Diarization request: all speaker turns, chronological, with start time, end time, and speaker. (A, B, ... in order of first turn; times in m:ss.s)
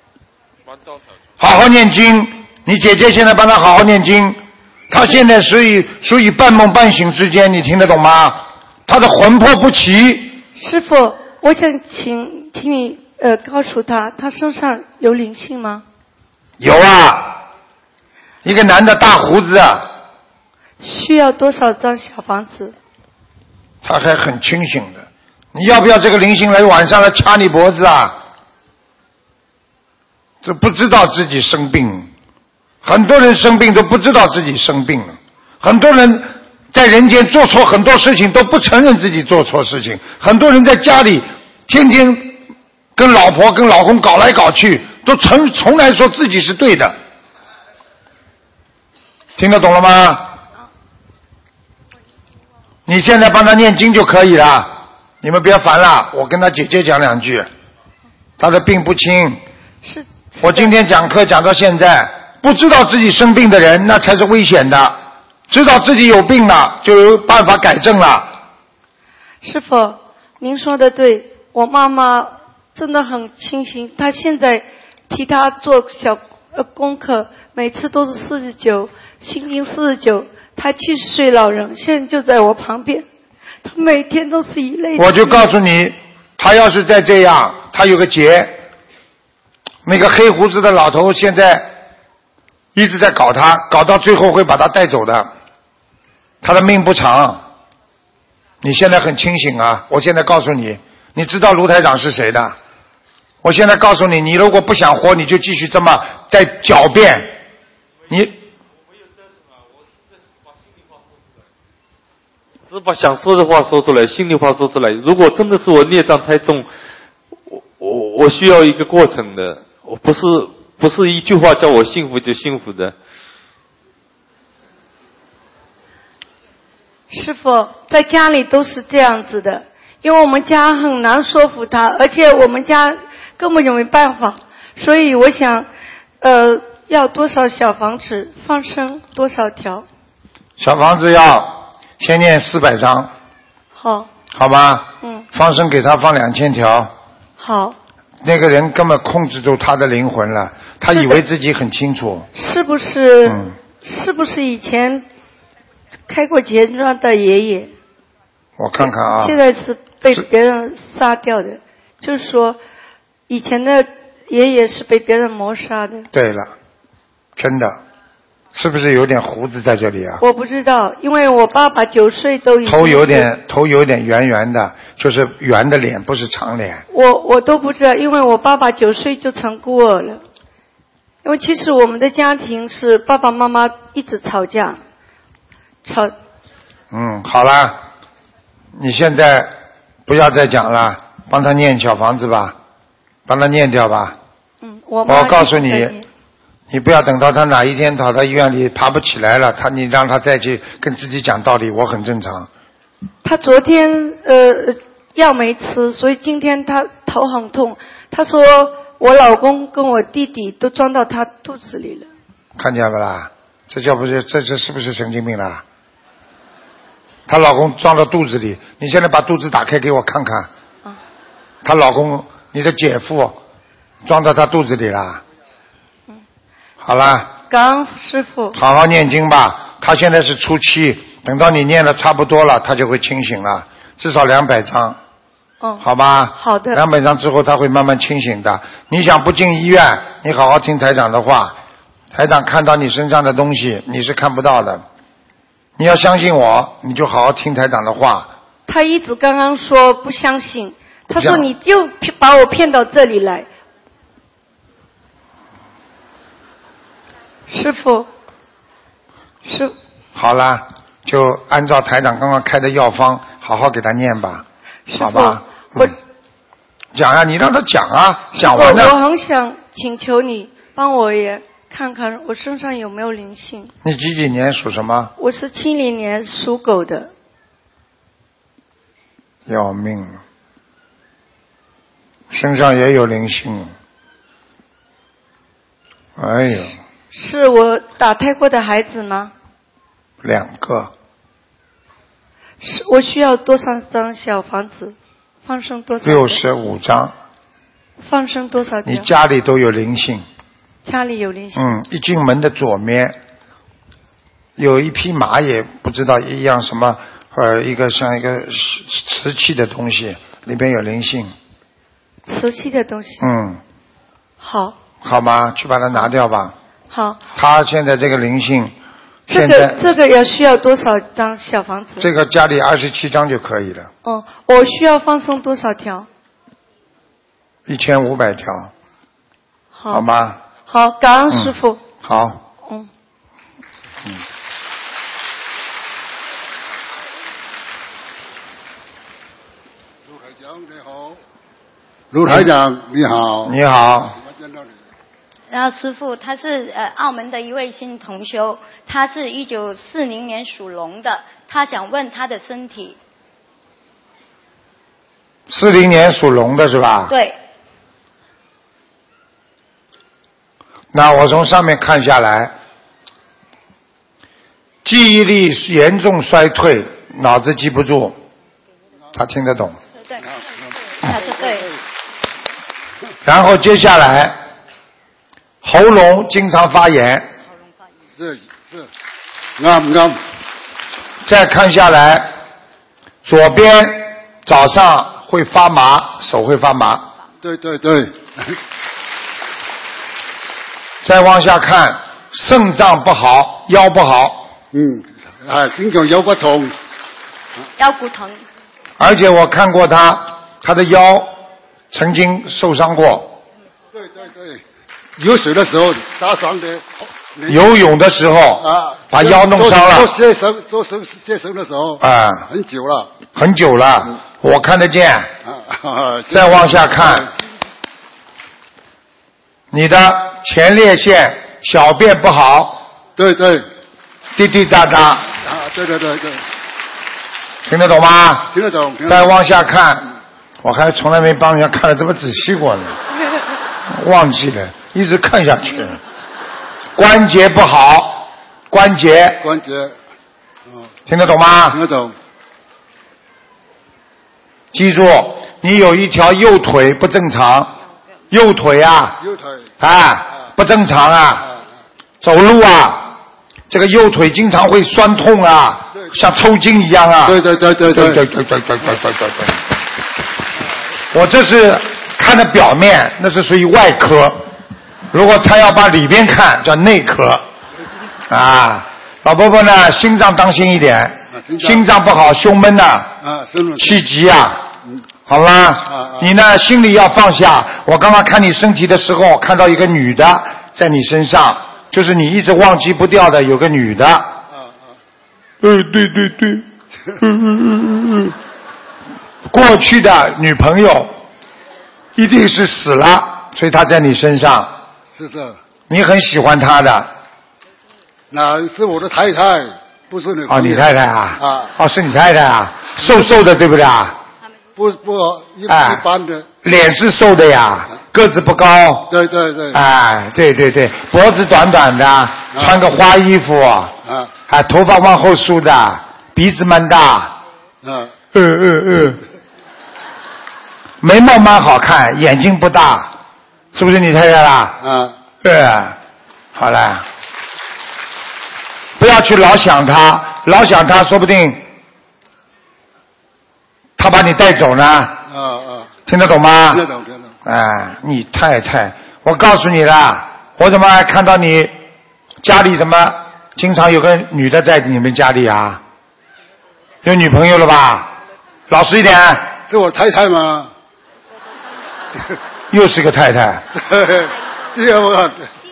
0:01.4-0:04.4 A
0:04.9-0:10.4 A
0:10.6-0:15.8 B
0:16.6-0:17.4 A
0:18.4-0:19.9 A
0:20.8-0:22.8 B
0:23.8-0:28.2 A
0:30.4-0:32.1 A
0:32.8-0:42.4 A
0:43.0-0:47.0 A
0:49.4-0:50.4 A
0:52.9-0:57.5 A
0:58.4-0:59.4 A
0:59.8-1:00.7 B
1:00.4-1:08.4 A
1:09.4-1:23.1 B
1:23.6-1:25.5 B
1:25.0-1:28.6 A
1:29.8-1:31.7 A
1:32.7-1:35.3 A
1:36.4-1:37.4 A
1:38.6-1:42.6 A
1:43.4-1:47.4 A
1:48.1-1:48.4 A
1:52.7-1:56.7 C
1:57.5-2:02.9 C
2:07.1-2:15.7 B
2:16.2-2:19.9 B
2:20.6-2:23.1 A
2:23.8-2:24.1 B
2:24.3-2:26.9 A
2:25.0-2:25.3 B
2:27.4-2:27.8 B
2:28.2-2:32.3 A
2:30.9-2:31.2 B
2:32.4-2:35.1 B
2:33.2-2:33.5 A
2:36.1-2:37.7 B
2:38.6-2:39.4 A
2:39.2-2:42.6 B
2:43.3-2:46.1 B
2:46.1-2:46.5 A
2:47.4-2:47.8 A
2:48.6-2:50.2 A
2:50.2-2:53.3 B
2:52.7-2:56.8 A
2:56.9-3:00.2 B
3:01.2-3:04.8 B
3:05.8-3:06.1 B
3:06.9-3:07.8 A
3:08.8-3:09.5 A
3:10.1-3:12.6 A
3:13.3-3:14.2 A
3:14.6-3:16.1 B
3:15.1-3:16.0 A
3:16.7-3:22.5 A
3:23.2-3:32.1 B
3:32.6-3:35.6 A
3:37.3-3:40.5 A
3:41.6-3:43.4 A
3:44.0-3:45.2 A
3:46.8-3:47.3 A
3:47.5-3:48.6 B
3:48.6-3:55.0 A
3:55.8-4:01.6 A
3:56.4-3:56.8 B
4:02.1-4:04.8 A
4:05.8-4:08.3 A
4:08.7-4:13.5 B
4:11.2-4:11.5 A
4:17.5-4:18.1 B
4:19.4-4:19.8 B
4:20.2-4:24.4 A
4:24.9-4:26.0 B
4:25.0-4:25.9 A
4:26.9-4:29.0 A
4:28.4-4:33.7 B
4:33.8-4:35.1 A
4:35.2-4:37.1 B
4:39.5-4:40.2 A
4:42.3-4:43.7 A
4:46.2-4:46.8 A
4:47.1-4:49.3 B
4:50.2-4:50.9 A
4:52.6-4:56.4 B
4:56.0-4:57.2 A
4:58.0-4:59.1 B
4:58.8-5:00.3 A
5:00.8-5:01.7 B
5:01.6-5:03.2 A
5:04.6-5:11.3 A
5:12.3-5:13.2 B
5:13.2-5:13.6 A
5:14.4-5:14.8 B
5:15.0-5:16.6 A
5:16.9-5:17.2 B
5:17.4-5:18.8 A
5:19.3-5:22.1 B
5:19.3-5:19.8 A
5:22.0-5:23.9 A
5:24.0-5:26.1 B
5:27.7-5:28.7 A
5:29.8-5:30.1 B
5:29.9-5:30.4 A
5:30.7-5:31.8 B
5:31.3-5:32.4 A
5:32.6-5:32.9 B
5:40.0-5:41.2 D
5:42.1-5:43.6 D
5:43.4-5:44.2 A
5:44.2-5:44.8 D
5:45.5-5:53.0 E
5:55.5-5:57.1 A
5:57.1-5:57.4 E
6:00.9-6:02.5 A
6:04.8-6:08.2 A
6:09.2-6:09.8 A
6:10.0-6:10.3 E
6:10.3-6:10.7 D
6:11.0-6:11.7 E
6:13.2-6:14.4 A
6:15.6-6:17.3 A
6:18.2-6:18.9 D
6:19.6-6:20.2 D
6:21.2-6:22.3 A
6:23.2-6:27.1 A
6:27.4-6:28.6 D
6:31.0-6:34.5 A
6:34.7-6:36.8 D
6:37.8-6:38.4 E
6:39.0-6:41.4 A
6:41.9-6:43.4 A
6:43.9-6:44.6 D
6:45.2-6:47.6 D
6:47.5-6:50.1 A
6:48.6-6:53.1 D
6:52.0-6:52.5 A
6:53.3-6:55.3 A
6:55.4-6:57.3 D
6:56.3-6:57.3 A
6:59.7-7:02.9 A
7:03.2-7:03.6 D
7:04.4-7:05.3 A
7:05.4-7:06.4 D
7:07.7-7:08.5 A
7:08.5-7:09.4 D
7:09.1-7:10.1 A
7:10.6-7:13.0 A
7:13.9-7:16.0 A
7:17.0-7:19.4 A
7:19.4-7:20.0 D
7:20.7-7:20.9 D
7:21.1-7:21.8 A
7:21.7-7:22.2 D
7:24.7-7:27.7 A
7:28.3-7:29.2 A
7:29.2-7:29.7 D
7:29.8-7:31.5 A
7:32.2-7:33.1 A
7:33.7-7:39.6 A
7:37.2-7:38.2 D
7:41.1-7:44.5 A
7:45.1-7:47.4 A
7:48.3-7:53.2 A
7:51.3-7:51.8 D
7:53.2-7:54.0 D
7:53.8-7:54.7 A
7:55.3-8:04.4 A
7:55.9-7:56.3 D
8:04.5-8:05.0 D
8:05.6-8:06.6 A
8:07.2-8:08.3 A
8:09.5-8:11.1 A
8:12.2-8:14.7 A
8:15.1-8:15.6 D
8:15.9-8:17.1 A
8:18.3-8:20.9 D
8:20.5-8:24.2 A
8:21.4-8:21.7 D
8:24.8-8:26.5 D
8:25.7-8:26.0 A
8:26.6-8:29.1 A
8:29.1-8:29.8 D
8:29.7-8:34.0 A
8:34.0-8:34.3 D
8:34.5-8:37.3 A
8:37.8-8:38.1 D
8:38.3-8:39.2 A
8:41.0-8:43.1 A
8:43.7-8:44.8 A
8:44.8-8:45.2 D
8:45.4-8:46.0 A
8:46.6-8:47.1 A
8:49.0-8:51.6 A
8:54.0-8:55.2 A
8:55.3-8:55.9 D
8:56.1-8:56.8 A
8:56.7-8:57.4 D
8:57.4-9:01.8 A
9:02.4-9:05.8 A
9:07.0-9:08.1 A
9:08.7-9:09.5 A
9:09.7-9:10.7 D
9:12.7-9:13.7 A
9:13.8-9:15.5 D